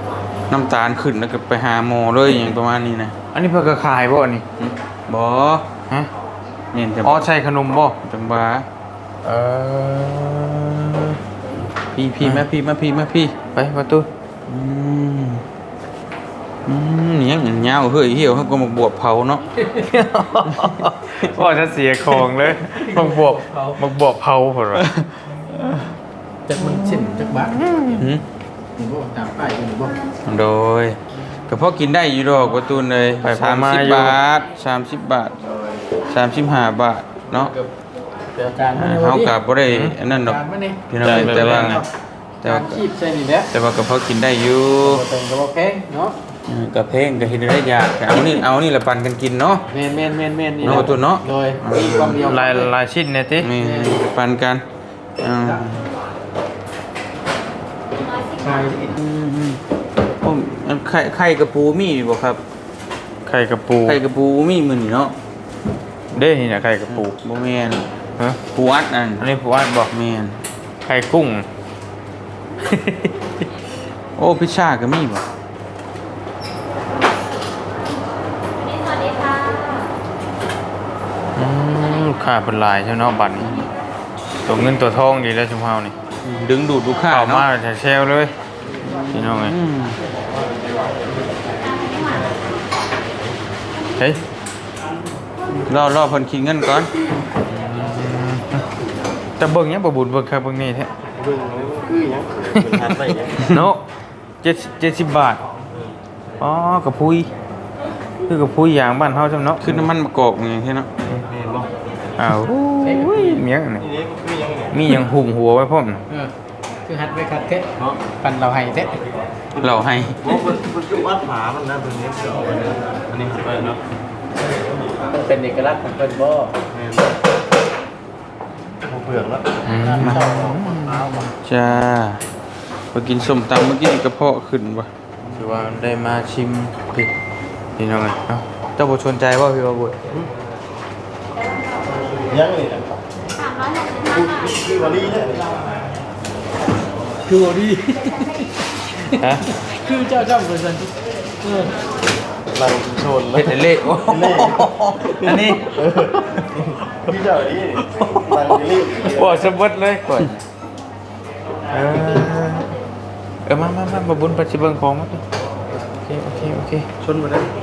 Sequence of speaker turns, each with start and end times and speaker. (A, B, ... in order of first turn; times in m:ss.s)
0:00.5-0:03.1 A
0:03.3-0:04.4 B
0:04.6-0:05.7 A
0:06.7-0:07.3 A
0:07.0-0:08.0 B
0:08.0-0:08.7 A
0:09.2-0:11.2 B
0:11.9-0:13.3 A
0:13.6-0:14.1 B
0:14.5-0:15.4 A
0:16.7-0:19.4 A
0:19.6-0:19.9 C
0:19.8-0:24.9 B
0:24.8-0:25.8 A
0:26.5-0:27.7 C
0:27.0-0:28.1 B
0:28.0-0:28.2 A
0:28.8-0:30.0 C
0:30.2-0:35.4 A
0:33.2-0:34.2 B
0:36.1-0:37.5 A
0:37.4-0:37.7 C
0:38.3-0:39.4 C
0:38.8-0:41.8 A
0:39.7-0:40.0 B
0:40.1-0:41.9 C
0:41.0-0:41.8 B
0:42.4-0:42.8 A
0:42.4-0:43.5 C
0:43.5-0:45.0 A
0:44.8-0:46.2 C
0:46.5-0:49.6 A
0:49.7-0:52.7 C
0:50.6-0:52.2 A
0:52.3-0:53.5 B
0:53.4-0:54.6 A
0:53.6-0:54.0 C
0:55.2-0:55.9 A
0:57.9-0:58.8 D
0:58.4-0:59.0 C
0:59.0-0:59.6 A
1:00.2-1:02.4 A
1:03.3-1:04.0 B
1:03.9-1:05.2 A
1:06.1-1:07.2 B
1:06.9-1:07.9 A
1:08.5-1:09.3 A
1:09.2-1:09.9 B
1:09.9-1:10.4 A
1:10.9-1:11.5 B
1:12.6-1:13.3 B
1:14.2-1:15.3 A
1:18.4-1:19.9 D
1:21.4-1:23.7 B
1:24.5-1:25.9 B
1:26.2-1:27.5 A
1:27.1-1:28.3 B
1:28.8-1:30.0 A
1:29.1-1:29.5 B
1:31.6-1:32.7 D
1:35.7-1:36.9 A
1:37.5-1:38.6 B
1:39.4-1:40.9 B
1:41.2-1:43.6 E
1:42.6-1:42.9 B
1:43.5-1:43.8 B
1:44.4-1:45.4 B
1:46.4-1:47.3 B
1:48.3-1:49.6 B
1:49.6-1:50.9 A
1:51.1-1:51.7 E
1:52.2-1:53.8 B
1:52.8-1:53.4 C
1:53.8-1:54.8 E
1:54.7-1:56.0 B
1:56.9-1:59.0 C
1:59.6-2:00.4 A
2:00.2-2:03.8 E
2:05.1-2:06.5 C
2:06.7-2:07.2 E
2:08.9-2:09.6 E
2:09.7-2:11.3 B
2:09.7-2:11.3 C
2:11.4-2:12.2 A
2:12.9-2:14.9 A
2:15.4-2:17.1 B
2:17.8-2:20.0 B
2:21.5-2:21.8 D
2:22.3-2:22.9 E
2:23.4-2:24.7 D
2:24.1-2:25.6 E
2:27.3-2:31.7 C
2:29.1-2:29.5 B
2:32.5-2:39.6 E
2:33.4-2:34.5 A
2:33.5-2:35.8 B
2:37.9-2:40.4 B
2:41.7-2:42.7 B
2:43.5-2:45.2 B
2:46.0-2:46.9 B
2:47.0-2:47.5 E